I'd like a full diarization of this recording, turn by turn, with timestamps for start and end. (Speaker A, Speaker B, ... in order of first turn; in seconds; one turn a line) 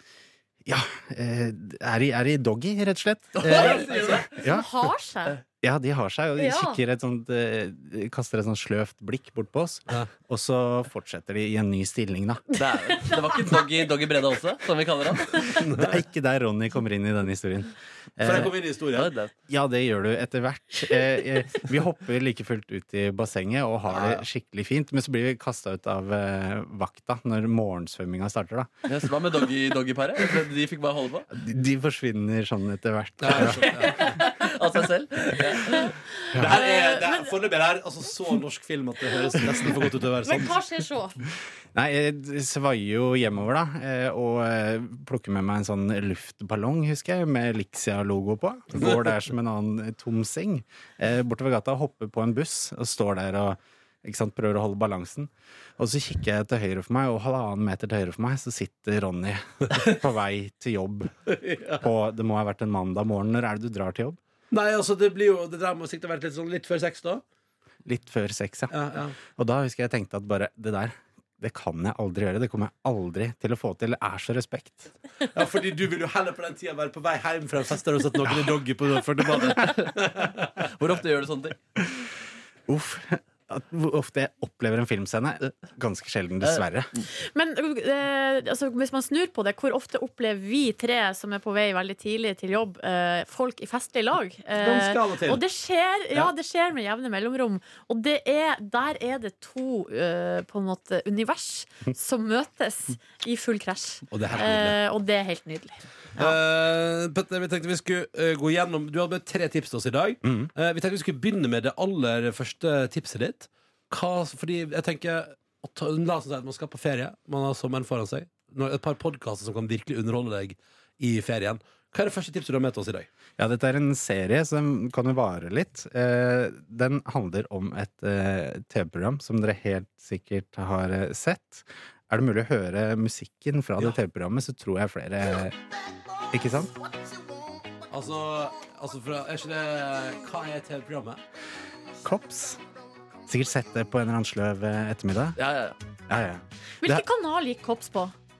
Speaker A: 0.6-4.7
Speaker B: 3.4-4.4
Speaker C: 3.5-5.4
Speaker A: 5.6-12.4
Speaker C: 6.4-6.8
Speaker B: 12.6-15.6
Speaker D: 15.6-15.9
Speaker A: 15.8-18.5
Speaker D: 18.2-19.1
Speaker B: 18.3-19.3
Speaker A: 19.5-28.7
Speaker D: 23.9-24.2
Speaker B: 28.9-31.3
Speaker A: 31.3-34.1
Speaker D: 33.2-34.2
Speaker B: 33.4-35.9
Speaker C: 36.3-37.3
Speaker D: 36.3-40.6
Speaker C: 40.2-41.2
Speaker A: 41.7-61.1
Speaker D: 61.3-61.8
Speaker A: 61.8-64.2
Speaker D: 64.5-67.2
Speaker A: 67.8-75.0
Speaker D: 68.7-69.1
Speaker D: 75.3-80.5
Speaker A: 78.3-78.6
Speaker B: 79.4-79.9
Speaker B: 80.6-81.6
Speaker A: 82.7-86.9
Speaker B: 86.4-87.0
Speaker C: 87.1-106.3
Speaker D: 94.5-95.4
Speaker D: 104.1-104.8
Speaker D: 106.2-123.1
Speaker A: 110.2-110.5
Speaker A: 123.4-135.6
Speaker A: 136.3-136.7
Speaker D: 137.9-141.2
Speaker A: 142.0-142.6
Speaker A: 143.3-145.4
Speaker B: 145.4-145.8
Speaker A: 146.1-147.0
Speaker C: 146.8-148.1